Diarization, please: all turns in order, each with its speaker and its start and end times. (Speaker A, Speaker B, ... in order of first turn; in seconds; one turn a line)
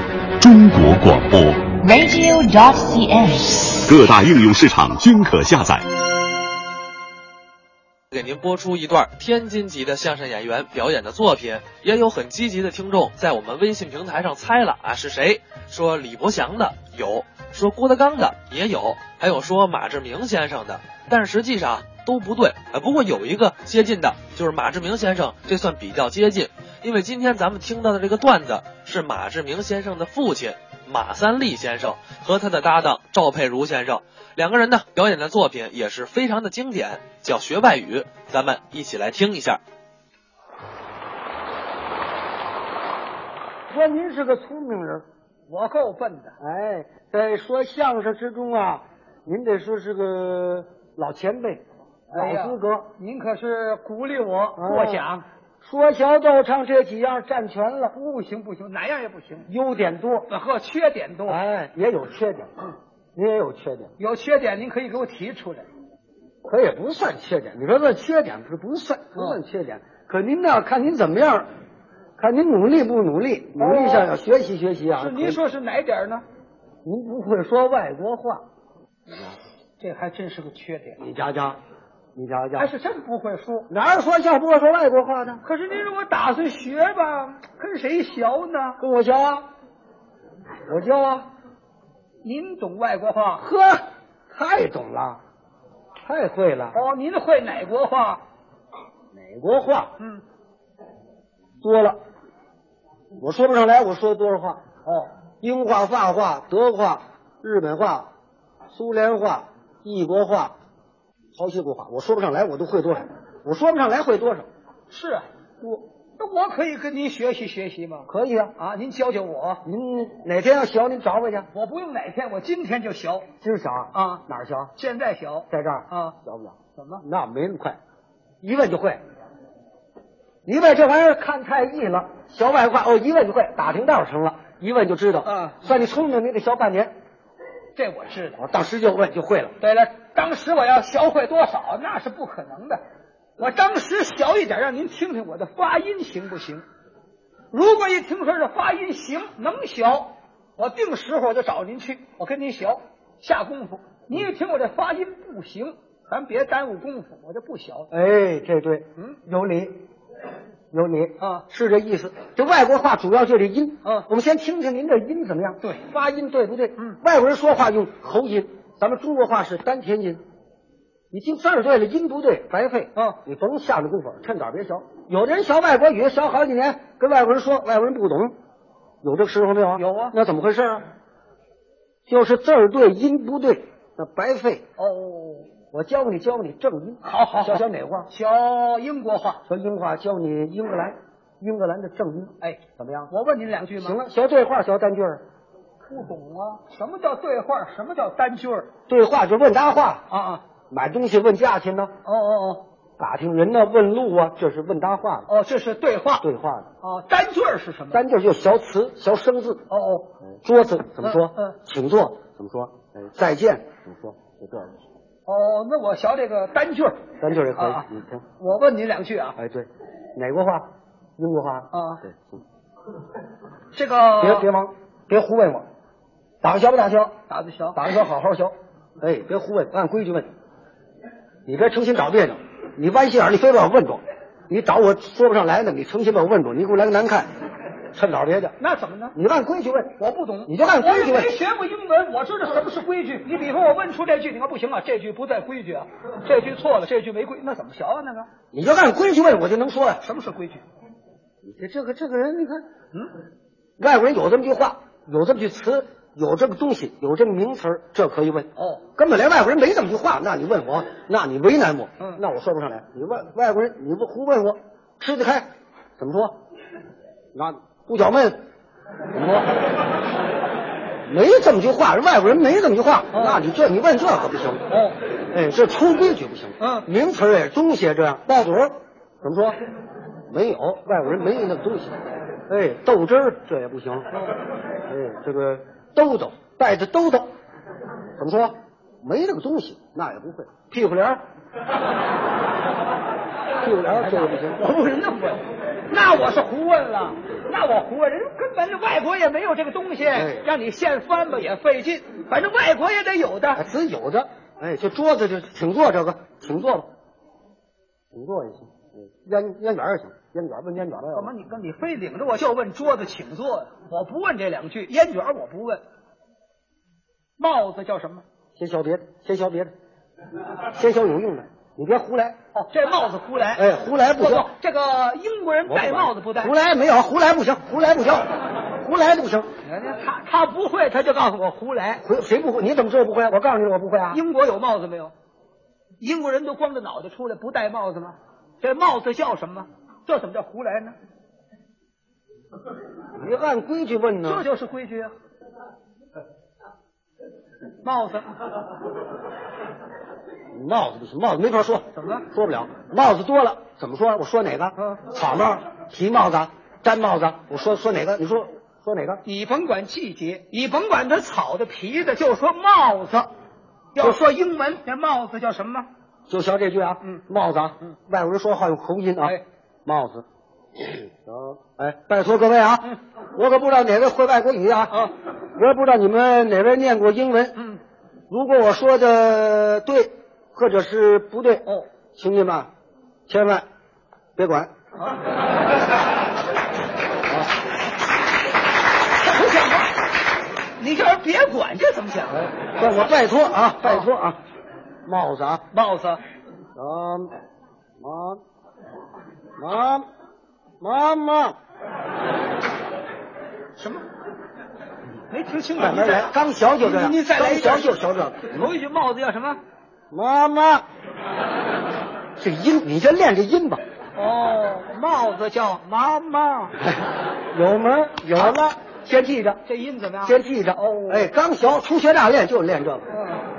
Speaker A: 0.4-1.8
Speaker B: 1.8-3.8
Speaker A: 3.9-5.9
Speaker C: 8.1-39.6
Speaker D: 43.7-45.0
Speaker E: 45.5-46.4
Speaker D: 46.4-52.9
Speaker E: 52.1-55.2
Speaker D: 54.6-55.1
Speaker D: 55.6-58.0
Speaker E: 57.9-59.5
Speaker D: 59.5-60.3
Speaker E: 60.3-61.4
Speaker D: 61.3-62.5
Speaker D: 63.1-63.9
Speaker E: 64.0-65.7
Speaker D: 66.4-71.5
Speaker E: 69.2-69.4
Speaker D: 72.2-75.4
Speaker E: 73.6-74.1
Speaker E: 75.0-76.2
Speaker D: 76.8-78.4
Speaker E: 79.8-81.0
Speaker D: 81.0-81.6
Speaker D: 82.2-82.7
Speaker E: 82.6-83.7
Speaker D: 83.7-85.4
Speaker E: 85.4-88.8
Speaker D: 88.8-89.5
Speaker D: 90.7-91.3
Speaker E: 92.2-93.5
Speaker D: 93.4-95.2
Speaker D: 96.0-96.8
Speaker E: 96.7-98.2
Speaker D: 99.1-99.9
Speaker D: 101.6-102.0
Speaker D: 103.2-104.6
Speaker E: 104.8-105.1
Speaker D: 105.4-108.1
Speaker D: 108.7-110.5
Speaker D: 111.3-114.5
Speaker E: 114.9-115.3
Speaker E: 116.2-119.7
Speaker D: 118.1-118.5
Speaker D: 119.6-121.5
Speaker E: 121.5-123.3
Speaker D: 123.4-124.7
Speaker E: 123.9-124.2
Speaker E: 124.8-126.2
Speaker D: 125.5-127.8
Speaker E: 126.8-127.0
Speaker D: 128.4-129.0
Speaker D: 130.5-136.9
Speaker E: 135.2-135.6
Speaker E: 137.8-138.4
Speaker D: 138.3-139.6
Speaker E: 139.6-142.8
Speaker E: 143.4-146.7
Speaker E: 147.5-157.9
Speaker D: 157.9-159.8
Speaker D: 160.7-170.2
Speaker E: 161.2-161.4
Speaker D: 171.1-178.3
Speaker D: 179.0-180.8
Speaker E: 179.8-180.2
Speaker D: 182.1-184.6
Speaker E: 184.8-185.5
Speaker D: 185.7-188.1
Speaker E: 187.0-189.4
Speaker D: 189.5-193.1
Speaker E: 192.4-194.0
Speaker D: 193.8-195.2
Speaker E: 195.8-198.7
Speaker D: 198.9-200.1
Speaker E: 200.1-200.4
Speaker D: 200.7-201.9
Speaker E: 202.0-202.7
Speaker D: 203.0-205.3
Speaker E: 205.3-206.2
Speaker D: 206.2-206.7
Speaker E: 206.8-208.0
Speaker D: 207.9-209.7
Speaker E: 209.7-210.1
Speaker D: 210.4-214.8
Speaker E: 211.0-211.6
Speaker E: 215.3-217.0
Speaker D: 217.2-218.2
Speaker E: 217.6-217.8
Speaker E: 218.4-219.4
Speaker D: 219.4-222.4
Speaker E: 221.7-222.0
Speaker E: 223.7-224.5
Speaker D: 224.2-225.7
Speaker D: 226.4-227.2
Speaker E: 227.3-227.8
Speaker D: 227.8-230.3
Speaker D: 231.5-237.3
Speaker D: 237.9-238.5
Speaker E: 238.6-239.2
Speaker D: 239.2-241.3
Speaker E: 240.0-248.3
Speaker D: 248.5-250.0
Speaker E: 250.0-250.6
Speaker D: 251.4-252.6
Speaker D: 253.8-266.4
Speaker E: 258.6-258.8
Speaker D: 267.3-268.4
Speaker D: 269.1-269.5
Speaker D: 271.1-274.6
Speaker E: 273.1-273.4
Speaker E: 274.7-275.0
Speaker D: 275.3-279.6
Speaker E: 276.6-276.9
Speaker D: 280.3-282.0
Speaker D: 282.5-284.1
Speaker D: 284.9-287.3
Speaker D: 288.2-291.2
Speaker D: 293.6-294.6
Speaker E: 293.9-303.6
Speaker D: 300.1-300.5
Speaker D: 303.6-306.9
Speaker D: 308.1-311.3
Speaker E: 311.1-315.8
Speaker E: 317.4-318.2
Speaker D: 318.6-319.7
Speaker D: 320.7-322.4
Speaker E: 322.5-323.7
Speaker D: 323.6-324.5
Speaker E: 324.2-326.6
Speaker D: 325.7-329.5
Speaker E: 329.6-332.1
Speaker D: 332.0-334.2
Speaker E: 334.1-335.1
Speaker E: 336.0-340.9
Speaker D: 343.2-344.5
Speaker E: 344.2-345.1
Speaker E: 347.8-348.2
Speaker D: 350.5-359.2
Speaker E: 351.9-352.3
Speaker E: 354.8-355.0
Speaker E: 359.2-363.3
Speaker E: 363.9-365.9
Speaker D: 366.3-370.2
Speaker D: 371.2-377.6
Speaker D: 378.3-382.7
Speaker D: 383.3-383.6
Speaker D: 384.4-384.7
Speaker E: 389.2-390.0
Speaker E: 390.8-392.5
Speaker D: 392.3-394.4
Speaker E: 393.8-394.1
Speaker D: 395.1-395.6
Speaker E: 395.7-396.2
Speaker D: 396.8-397.3
Speaker D: 398.0-398.4
Speaker D: 399.6-400.1
Speaker D: 400.8-401.6
Speaker E: 403.8-404.0
Speaker E: 405.3-409.6
Speaker D: 405.8-408.6
Speaker D: 410.1-410.9
Speaker D: 412.4-413.8
Speaker E: 414.1-416.8
Speaker D: 416.8-419.6
Speaker E: 419.6-421.3
Speaker D: 420.2-423.1
Speaker E: 423.1-423.4